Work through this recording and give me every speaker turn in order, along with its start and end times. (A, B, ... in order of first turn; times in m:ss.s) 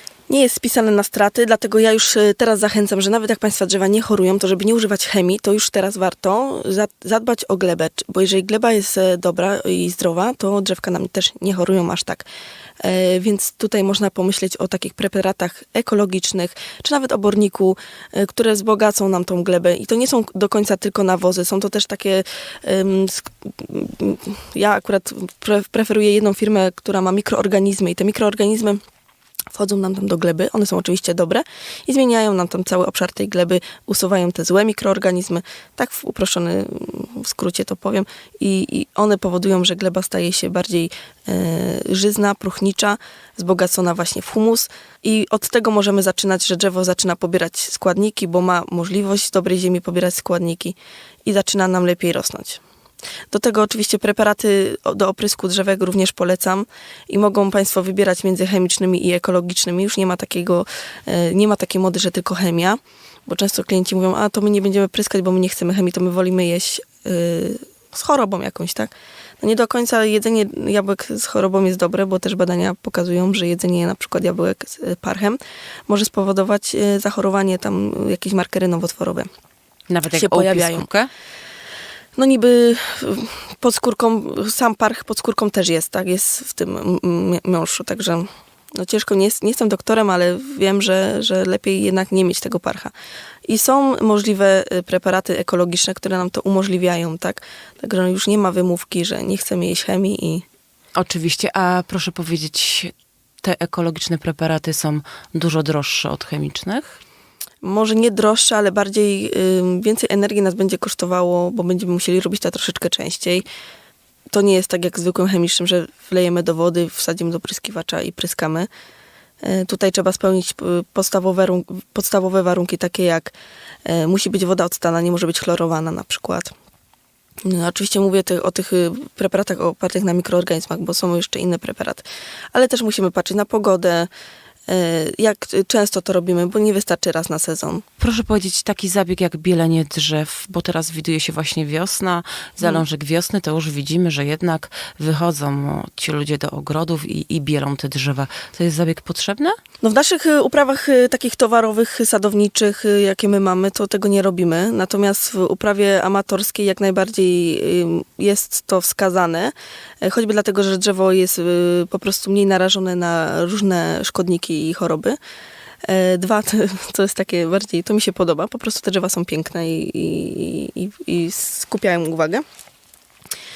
0:00.3-0:12.2 A
0:12.8-0:28.8 A
0:29.5-0:52.6 A
0:53.3-1:19.3 A
1:19.9-1:21.1 B
1:20.1-1:20.9 A
1:22.2-1:32.9 A
1:33.4-1:40.4 A
1:40.9-1:42.9 B
1:43.4-1:47.0 B
1:47.6-1:53.4 A
1:54.3-1:58.7 A
1:59.4-2:03.3 A
2:03.8-2:06.5 A
2:07.4-2:14.1 A
2:14.7-2:17.8 A
2:18.0-2:29.6 B
2:29.8-2:45.2 A
2:45.8-2:52.4 A